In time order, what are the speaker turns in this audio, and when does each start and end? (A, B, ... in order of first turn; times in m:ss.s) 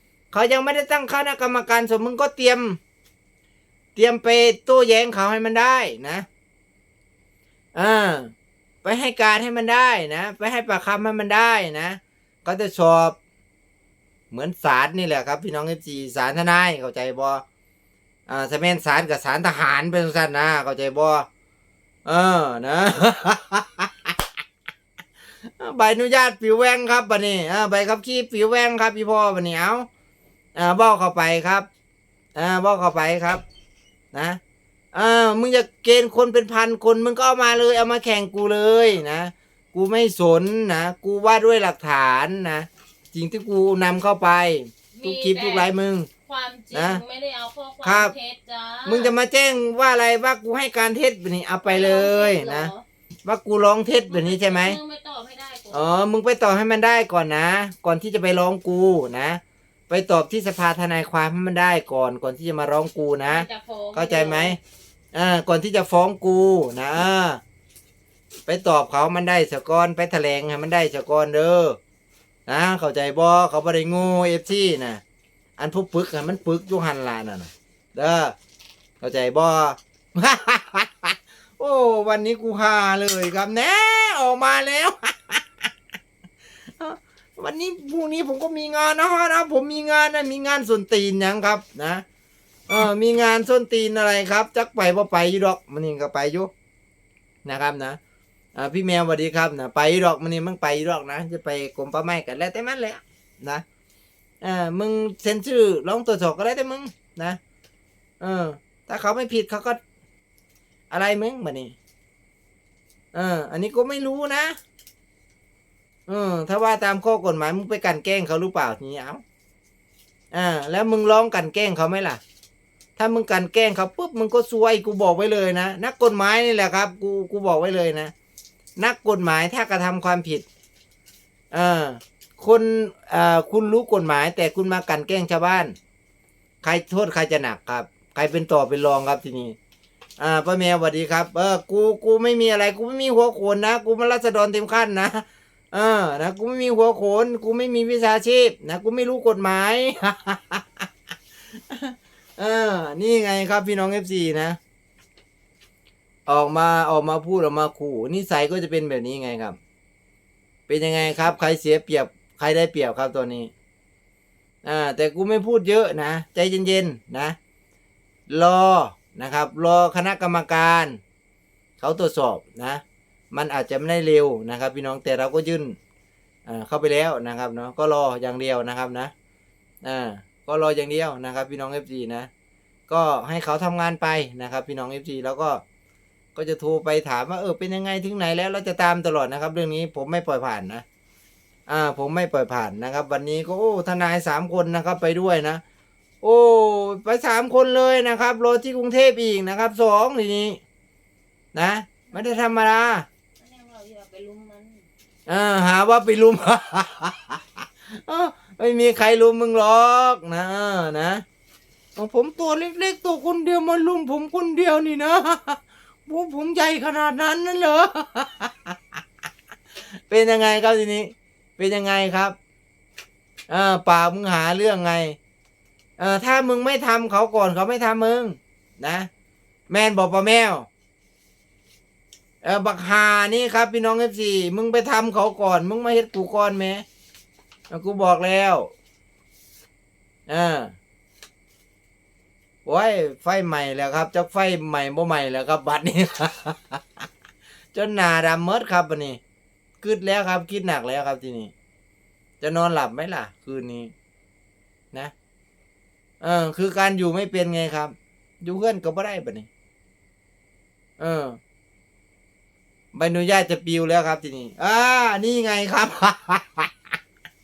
0:00.3-0:02.8 A
0:04.0-0:06.2 A
0:07.8-0:08.3 A
0:08.8-0:13.2 A
0:14.3-0:17.4 A
0:18.3-0:21.3 A
0:22.1-0:24.1 A
0:25.6-0:29.9 A
0:30.6-0:31.7 A
0:32.3-0:33.4 A
0:34.1-0:34.4 A
0:34.9-0:46.1 A
0:44.9-0:45.7 B
0:46.2-0:49.1 B
0:46.7-0:47.0 A
0:47.8-0:48.1 A
0:48.8-0:52.7 A
0:51.6-0:52.8 B
0:53.2-0:54.8 A
0:54.1-0:55.9 B
0:55.7-1:04.6 A
1:03.3-1:04.6 B
1:05.1-1:07.4 A
1:08.5-1:11.8 A
1:12.5-1:15.0 A
1:15.6-1:18.3 A
1:19.0-1:25.7 A
1:26.8-1:32.0 A
1:32.7-1:36.5 A
1:37.4-1:38.0 A
1:38.6-1:43.6 A
1:44.4-1:47.4 A
1:48.2-1:49.8 A
1:50.9-1:51.8 A
1:53.1-1:54.6 A
1:56.1-1:59.2 A
2:00.3-2:02.2 A
2:03.0-2:08.1 A
2:08.8-2:10.4 A
2:11.5-2:15.8 A
2:16.6-2:19.6 A
2:20.2-2:30.9 A
2:31.7-2:34.6 A
2:36.3-2:39.6 A
2:40.7-2:43.5 A
2:44.6-2:47.4 A
2:48.3-2:51.0 A
2:51.8-2:55.8 A
2:56.4-2:59.1 A
2:59.8-3:02.3 A
3:02.9-3:05.6 A
3:06.3-3:10.8 A
3:11.7-3:15.6 A
3:16.2-3:20.6 A
3:21.5-3:23.1 A
3:23.4-3:24.8 B
3:25.3-3:31.2 A
3:32.0-3:38.8 A
3:40.1-3:42.4 A
3:43.5-3:45.2 A
3:46.0-3:49.1 A
3:49.7-3:50.7 A
3:52.4-3:56.8 A
3:57.7-3:58.7 A
4:00.3-4:00.7 A
4:02.6-4:06.8 A
4:07.7-4:09.2 A
4:09.8-4:11.5 A
4:12.4-4:13.9 A
4:16.2-4:19.5 A
4:21.0-4:21.4 A
4:22.9-4:26.7 A